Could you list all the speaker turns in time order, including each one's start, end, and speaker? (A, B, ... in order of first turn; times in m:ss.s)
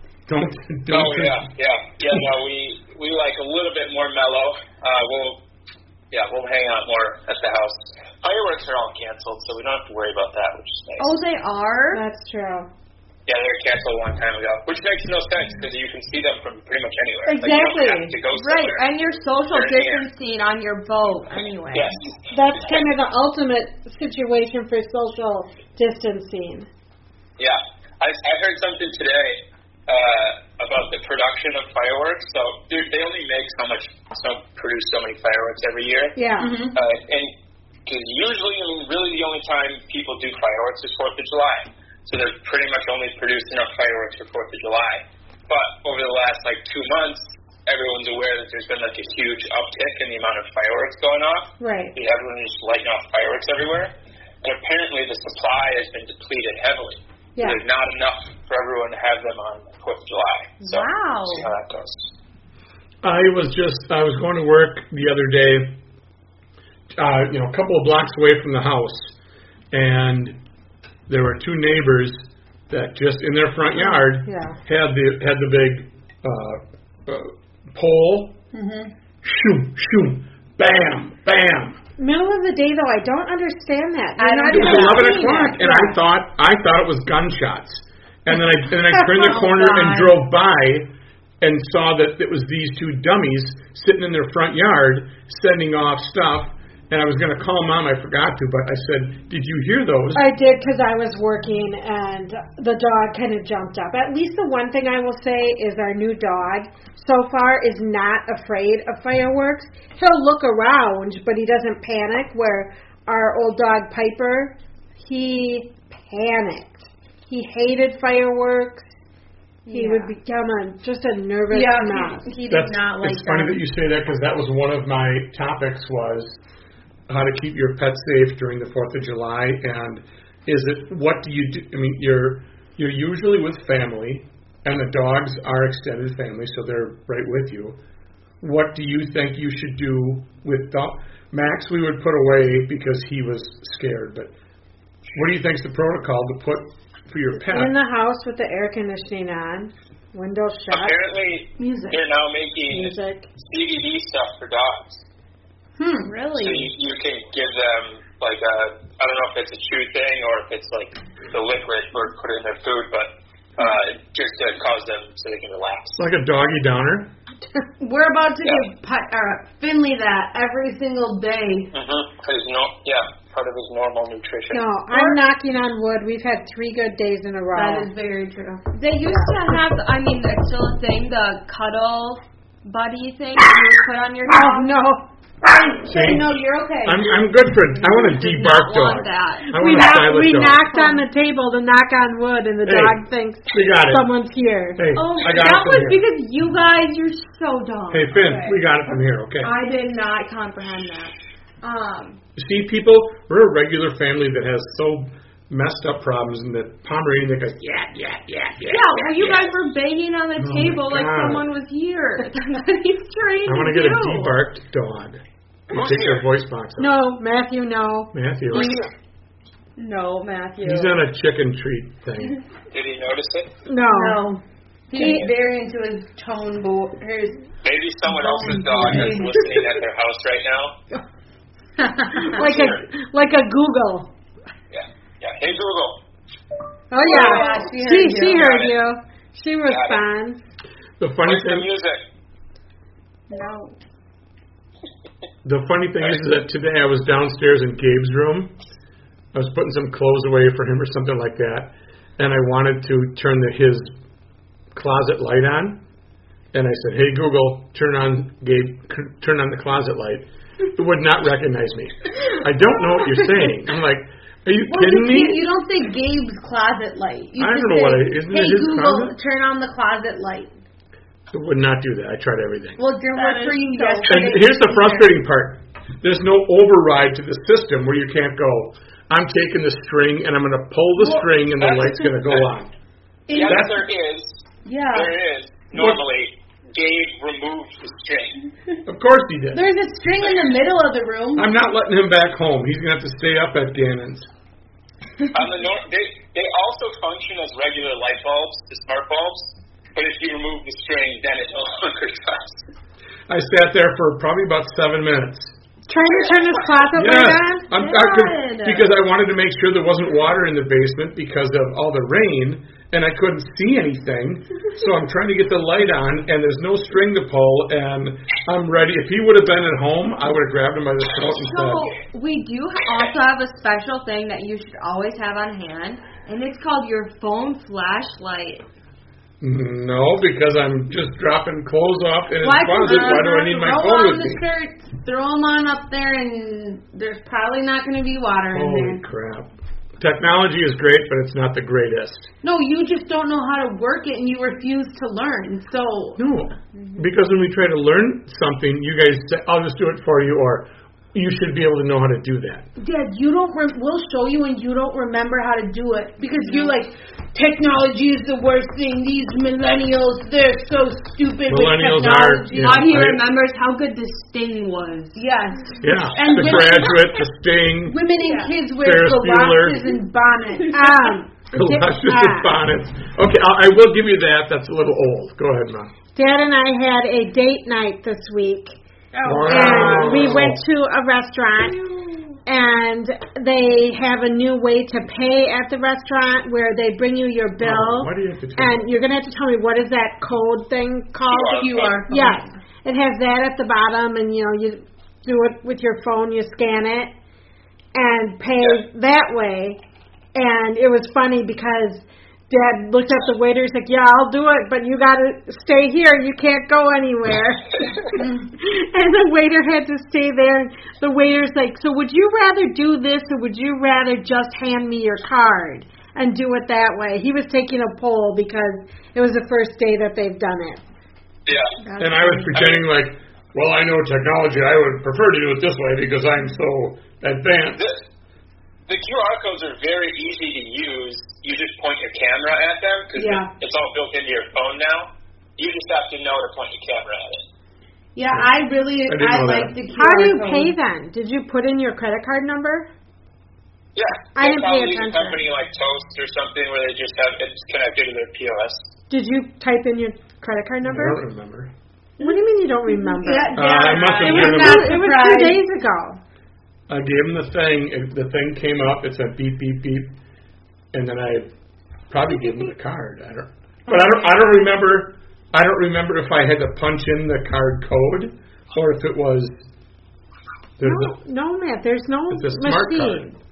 0:00.3-0:01.4 A
0:00.9-0:05.4 B
0:06.1-0:11.2 B
0:11.0-0:12.0 C
0:11.9-0:12.7 D
0:13.3-0:18.8 B
0:18.3-0:22.0 C
0:19.5-0:20.0 B
0:21.7-0:22.1 B
0:22.3-0:26.7 D
0:27.4-0:36.2 B
0:36.2-0:36.5 D
0:36.4-0:36.8 E
0:36.7-0:37.3 B
0:37.8-0:53.9 B
0:51.6-0:51.9 D
0:54.4-1:02.1 B
1:00.6-1:01.5 C
1:03.0-1:05.7 A
1:06.9-1:09.1 A
1:09.7-1:10.4 A
1:11.1-1:18.4 A
1:13.8-1:14.6 D
1:18.5-1:18.9 E
1:19.2-1:21.8 A
1:22.0-1:26.0 D
1:24.2-1:25.7 E
1:24.5-1:30.9 A
1:29.0-1:30.2 E
1:31.4-1:40.2 A
1:40.1-1:58.9 D
1:59.6-2:00.1 E
1:59.7-2:02.3 D
2:01.5-2:03.6 E
2:02.5-2:06.4 A
2:07.1-2:17.8 A
2:18.4-2:24.3 A
2:25.1-2:27.7 A
2:27.5-2:31.0 D
2:30.7-2:35.0 B
2:31.6-2:32.0 E
2:32.7-2:33.3 D
2:35.8-2:36.3 E
2:36.1-2:36.7 C
2:36.4-2:46.0 B
2:46.0-2:47.1 A
2:47.8-2:51.7 E
2:51.7-2:54.7 B
2:54.5-2:57.9 D
2:54.9-2:55.2 E
2:57.5-2:58.8 E
2:58.7-3:04.7 C
3:04.3-3:05.0 D
3:05.4-3:07.1 E
3:05.9-3:06.3 A
3:06.8-3:10.6 A
3:07.8-3:09.9 C
3:09.5-3:14.9 D
3:10.7-3:11.0 C
3:12.6-3:13.0 A
3:13.5-3:14.1 A
3:14.8-3:16.0 A
3:14.9-3:18.6 C
3:17.9-3:19.5 A
3:19.4-3:22.2 C
3:22.4-3:29.4 A
3:28.6-3:34.4 C
3:30.4-3:31.4 A
3:33.4-3:37.0 A
3:35.7-3:36.2 B
3:36.8-3:38.8 D
3:38.1-3:38.8 A
3:39.8-3:41.0 C
3:40.6-3:42.4 A
3:42.7-3:43.5 B
3:43.7-3:44.2 D
3:43.9-3:47.4 E
3:45.0-3:45.2 D
3:47.6-3:50.8 B
3:48.1-3:49.7 E
3:51.8-3:52.6 E
3:52.2-3:54.1 D
3:52.3-3:52.8 B
3:54.7-3:56.0 B
3:56.9-4:00.5 D
3:57.0-3:58.5 E
3:57.1-3:57.4 B
3:57.1-3:57.6 C
3:58.3-3:58.8 B
3:59.6-4:00.0 B
4:01.0-4:01.7 A
4:01.2-4:02.0 B
4:03.3-4:03.7 E
4:05.4-4:08.5 A
4:09.3-4:13.9 A
4:14.7-4:15.8 A
4:16.5-4:25.4 A
4:24.6-4:30.5 E
4:27.4-4:29.1 A
4:31.3-4:32.8 A
4:32.8-4:35.1 E
4:33.1-4:34.2 C
4:34.0-4:42.7 A
4:41.6-4:42.5 B
4:43.3-4:43.7 E
4:43.3-4:48.4 B
4:43.4-4:43.8 A
4:44.6-4:45.2 E
4:45.7-4:46.0 A
4:48.9-4:49.6 A
4:49.5-4:51.5 E
4:51.4-4:54.3 A
4:55.3-5:02.6 B
5:03.3-5:05.5 A
5:05.9-5:07.7 D
5:06.1-5:06.6 B
5:06.9-5:21.9 A
5:07.8-5:08.8 C
5:21.3-5:28.6 C
5:29.4-5:34.4 A
5:32.4-5:39.0 E
5:32.8-5:33.2 C
5:38.5-5:42.3 A
5:42.4-5:46.2 E
5:46.2-5:52.6 A
5:52.8-6:02.9 E
5:56.4-5:56.7 C
6:01.5-6:03.2 A
6:02.5-6:05.2 C
6:05.1-6:07.2 E
6:05.8-6:08.0 A
6:07.8-6:11.0 E
6:08.2-6:08.5 C
6:08.8-6:09.9 A
6:10.7-6:12.6 D
6:11.5-6:15.9 A
6:16.1-6:18.8 D
6:19.1-6:19.5 C
6:19.2-6:20.4 E
6:19.2-6:20.6 A
6:19.4-6:21.8 D
6:22.4-6:37.1 D
6:27.6-6:28.9 A
6:31.3-6:32.0 B
6:31.5-6:32.5 E
6:37.9-6:39.8 D
6:40.4-7:00.8 D
6:48.1-6:48.5 E
7:01.4-7:01.8 B
7:01.8-7:02.5 E
7:02.0-7:07.9 A
7:02.5-7:02.8 B
7:07.8-7:08.0 B
7:08.9-7:17.4 B
7:13.1-7:13.5 E
7:18.1-7:20.7 E
7:19.1-7:19.7 A
7:19.9-7:22.9 D
7:23.9-7:28.8 B
7:24.4-7:25.4 D
7:29.1-7:31.2 D
7:30.8-7:31.7 A
7:32.2-7:36.2 D
7:33.0-7:35.6 E
7:33.5-7:35.0 A
7:36.9-7:40.1 A
7:40.9-7:41.5 A
7:42.1-7:49.6 A
7:50.8-7:51.2 A
7:50.8-7:53.4 D
7:52.3-7:53.3 A